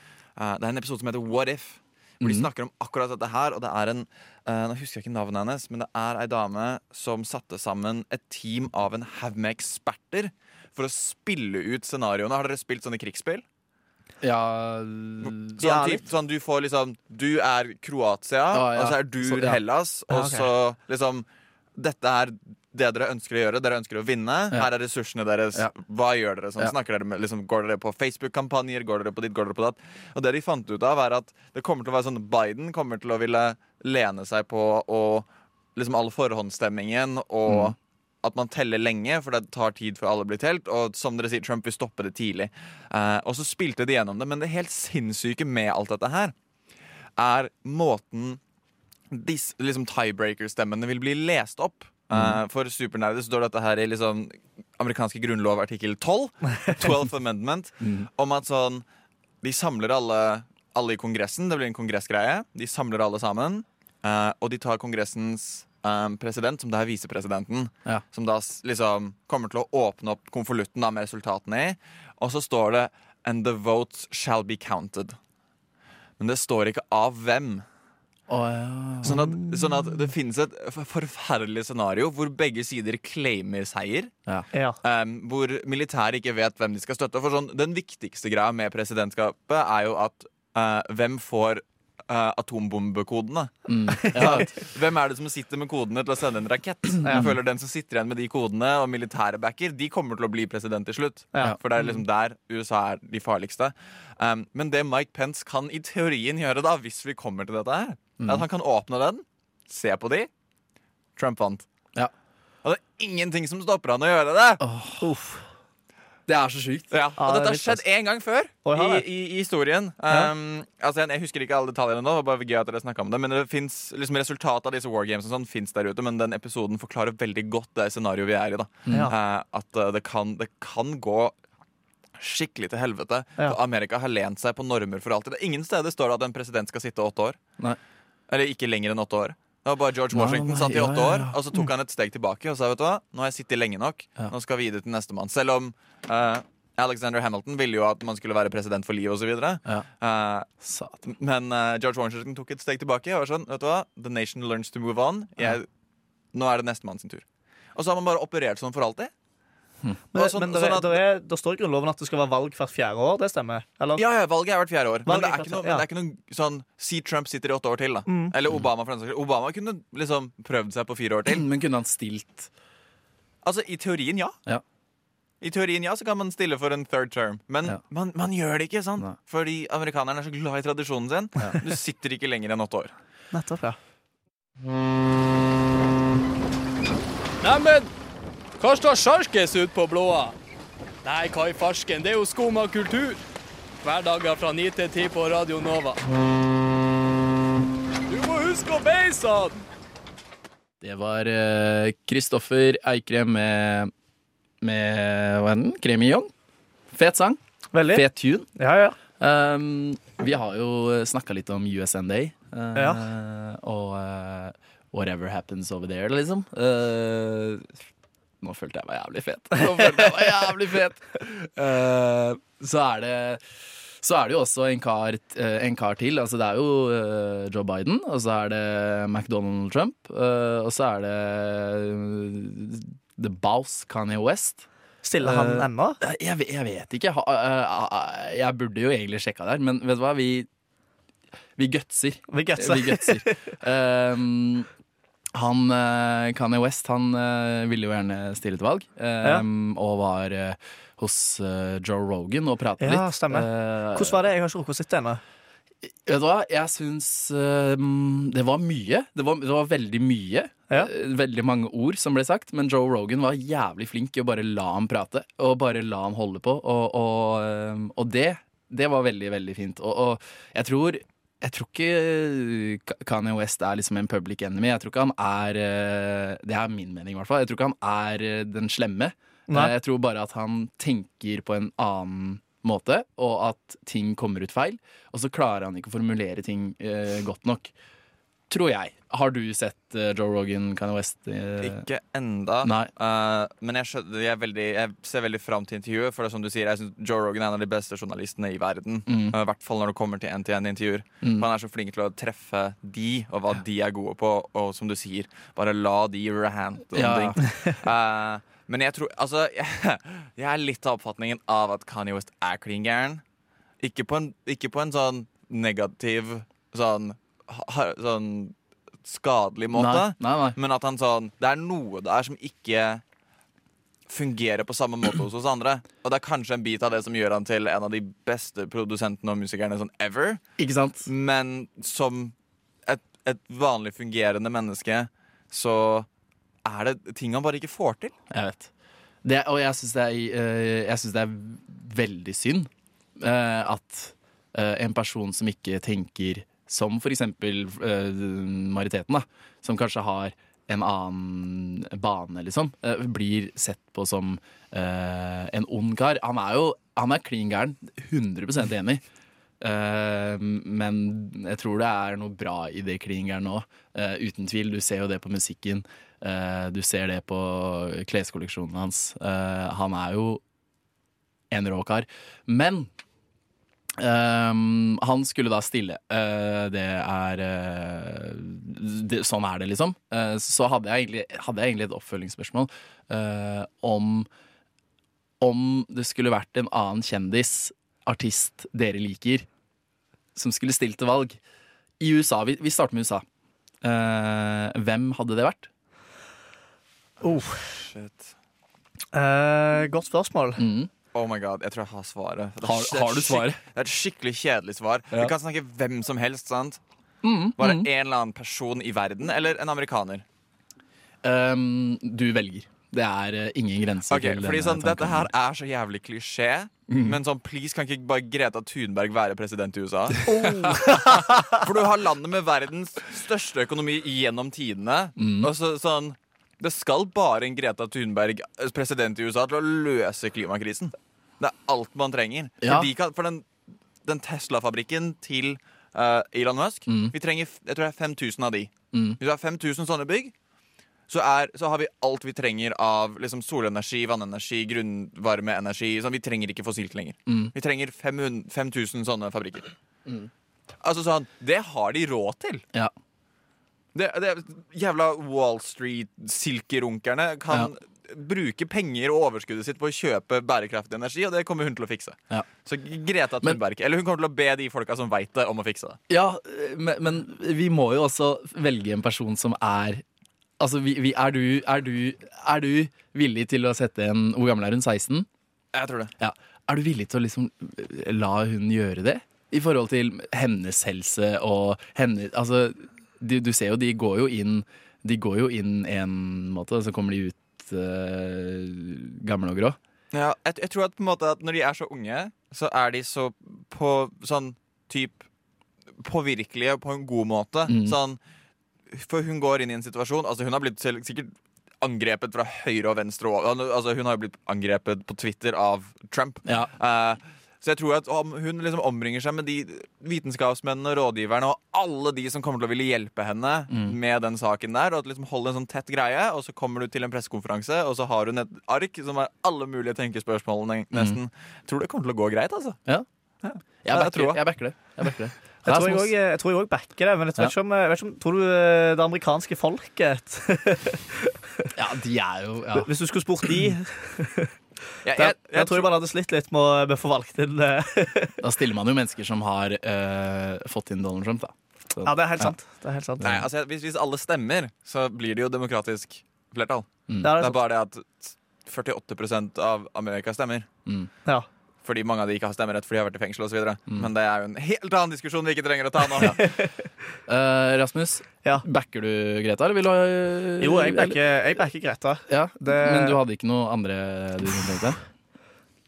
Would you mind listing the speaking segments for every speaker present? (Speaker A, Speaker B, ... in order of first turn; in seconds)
Speaker A: 0.3-13.4, 15.2-46.3, 47.2-48.4, 49.1-58.8, 59.4-75.2, 76.2-77.6, 79.0-84.1, 84.8-93.5, 94.1-110.3, 111.2-111.7, 112.6-114.6, 116.9-131.3, 132.2-137.4, 138.3-150.5, 151.0-155.7, 156.3-159.1, 160.1-161.0, 164.0-171.4, 173.4-174.4, 175.4-182.9, 291.6-313.2, 313.8-323.0, 324.1-330.4, 331.1-332.3, 332.9-336.1, 336.6-338.1, 397.6-398.3, 401.1-406.8, 407.6-410.2, 414.1-420.3, 421.1-433.5, 434.0-440.3, 441.1-449.7, 450.8-452.6, 453.9-466.0, 475.7-476.1, 490.1-495.2, 496.0-498.2, 498.9-522.8, 523.4-524.4, 535.0-535.9, 543.2-550.7, 551.8-556.5
Speaker B: 2.2-2.5, 14.2-15.6, 18.5-19.6, 37.5-37.7, 52.1-52.4, 57.8-58.1, 78.3-79.3, 93.7-94.5, 97.1-97.3, 108.2-108.5, 114.6-115.1, 116.3-117.0, 140.1-141.4, 150.6-151.0, 171.2-172.5, 200.8-203.9, 204.6-206.3, 206.9-208.5, 209.1-217.7, 218.4-223.4, 224.0-234.7, 235.2-240.5, 241.6-244.7, 245.3-254.2, 256.0-287.7, 288.5-291.9, 292.6-292.9, 299.1-299.4, 306.9-307.4, 319.7-320.6, 330.6-331.1, 338.3-338.7, 339.2-359.0, 359.6-370.4, 371.5-372.9, 374.0-384.3, 385.4-389.5, 390.3-391.4, 392.0-393.2, 393.8-395.7, 400.6-400.9, 402.6-403.6, 407.2-407.9, 411.2-415.3, 416.9-417.2, 420.4-420.7, 425.2-425.5, 432.6-432.9, 436.9-437.1, 438.9-439.2, 447.3-447.5, 466.1-470.0, 470.6-475.3, 476.2-489.8, 497.6-498.0, 506.4-506.7, 513.7-514.0, 520.9-521.2, 523.8-526.1, 531.7-532.9, 538.4-542.5, 547.1-547.3, 557.2-561.2, 562.3-565.0
Speaker C: 15.6-16.0, 20.1-20.5, 84.5-84.8, 94.0-94.5, 115.0-115.4, 117.2-117.8, 118.6-119.0, 160.1-164.0, 165.1-165.8, 168.1-168.3, 183.3-183.8, 207.7-208.0, 208.6-209.0, 212.7-213.0, 235.0-236.0, 242.3-243.5, 252.8-255.2, 279.5-279.7, 397.2-397.7, 399.1-400.6, 420.3-421.2, 525.6-531.7, 532.8-534.5, 535.1-538.4, 542.0-543.3, 547.2-547.6, 556.2-556.7, 560.6-563.2
Speaker D: 187.4-187.9, 188.6-190.3, 191.0-193.2, 193.8-196.0, 198.1-199.6